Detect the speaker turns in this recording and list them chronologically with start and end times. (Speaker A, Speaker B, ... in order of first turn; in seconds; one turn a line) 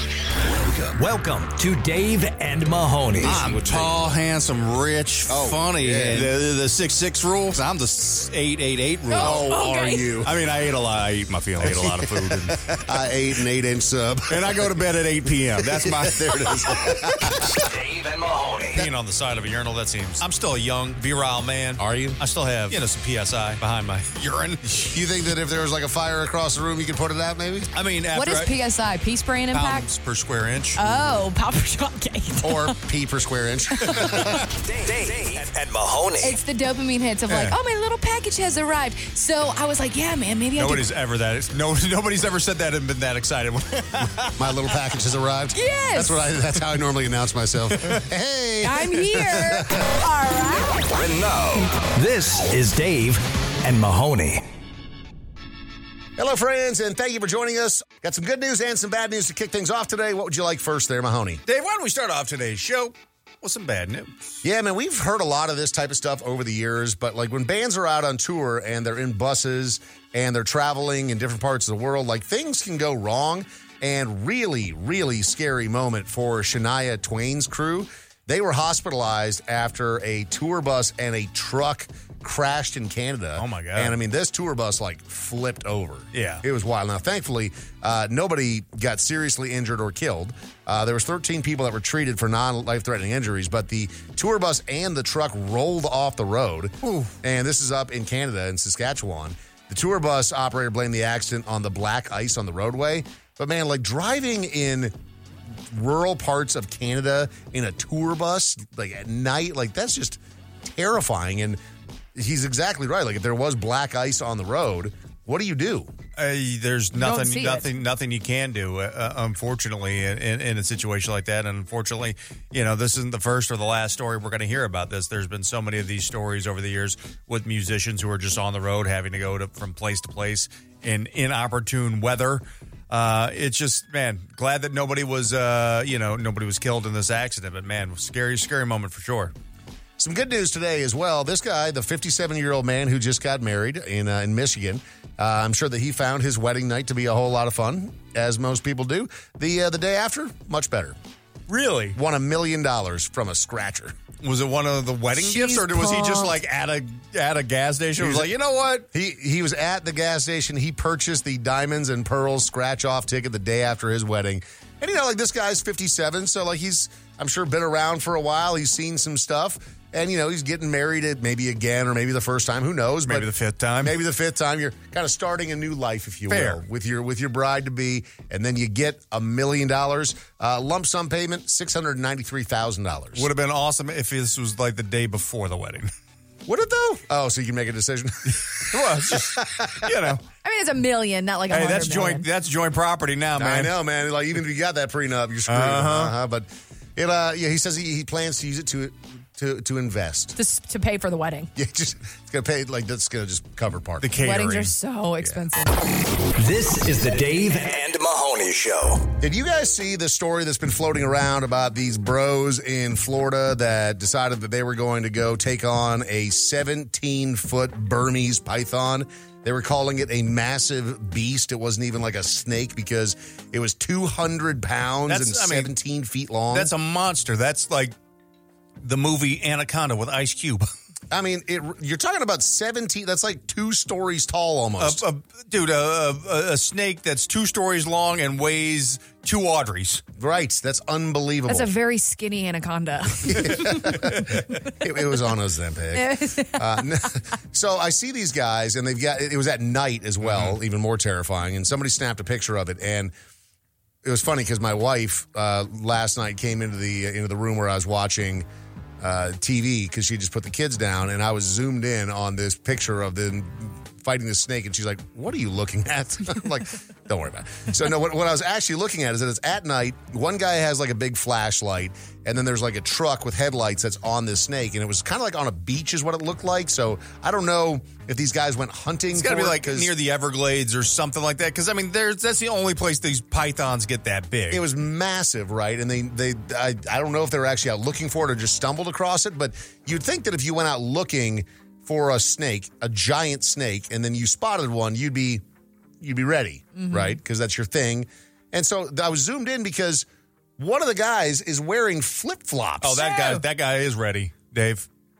Speaker A: 0.9-3.5
Speaker B: 3.2-9.4
Speaker C: 3.3-3.9
Speaker C: 5.3-6.3
Speaker C: 9.1-10.3
Speaker D: 9.2-10.1
Speaker B: 10.2-12.6
Speaker C: 11.6-14.7
Speaker B: 14.3-16.8
Speaker C: 15.6-17.7
Speaker E: 17.7-18.8
Speaker B: 18.8-24.6
Speaker C: 21.8-22.2
Speaker C: 24.6-27.7
Speaker B: 27.7-28.5
Speaker D: 28.1-29.9
Speaker B: 29.5-30.8
Speaker D: 30.8-32.7
Speaker C: 32.4-34.5
Speaker D: 33.8-34.3
Speaker E: 34.6-36.3
Speaker D: 36.2-40.8
Speaker B: 37.3-37.5
Speaker B: 40.6-44.3
Speaker C: 44.4-49.9
Speaker D: 45.5-46.2
Speaker D: 48.6-50.9
Speaker A: 51.9-54.4
Speaker C: 56.2-61.4
Speaker B: 61.5-64.4
Speaker C: 64.4-104.9
Speaker B: 83.4-84.0
Speaker B: 86.1-86.4
Speaker B: 96.8-97.1
Speaker C: 105.7-111.6
Speaker C: 112.1-115.9
Speaker B: 116.2-139.3
Speaker D: 116.9-117.7
Speaker C: 140.0-151.0
Speaker B: 151.5-151.9
Speaker C: 151.9-153.9
Speaker B: 154.2-158.9
Speaker D: 155.2-156.3
Speaker C: 158.0-158.3
Speaker C: 158.9-173.3
Speaker B: 173.1-173.9
Speaker C: 173.8-183.3
Speaker B: 176.3-176.6
Speaker B: 183.2-185.9
Speaker C: 186.4-190.1
Speaker B: 188.6-190.2
Speaker D: 190.4-192.2
Speaker B: 191.5-193.7
Speaker C: 193.3-200.3
Speaker B: 195.5-196.1
Speaker D: 200.3-201.5
Speaker C: 201.6-204.1
Speaker B: 204.0-204.7
Speaker D: 204.2-205.8
Speaker A: 206.3-208.9
Speaker C: 209.2-226.7
Speaker B: 225.1-225.7
Speaker B: 226.5-227.9
Speaker B: 228.8-230.7
Speaker C: 231.1-235.0
Speaker B: 234.8-240.0
Speaker C: 240.2-241.7
Speaker D: 241.5-243.7
Speaker C: 243.2-253.1
Speaker B: 243.7-244.5
Speaker D: 245.9-246.8
Speaker B: 250.2-250.5
Speaker C: 254.0-258.4
Speaker C: 259.0-279.9
Speaker B: 279.1-284.6
Speaker C: 284.5-295.4
Speaker C: 296.0-300.1
Speaker D: 296.7-297.2
Speaker C: 300.6-303.4
Speaker B: 302.8-304.9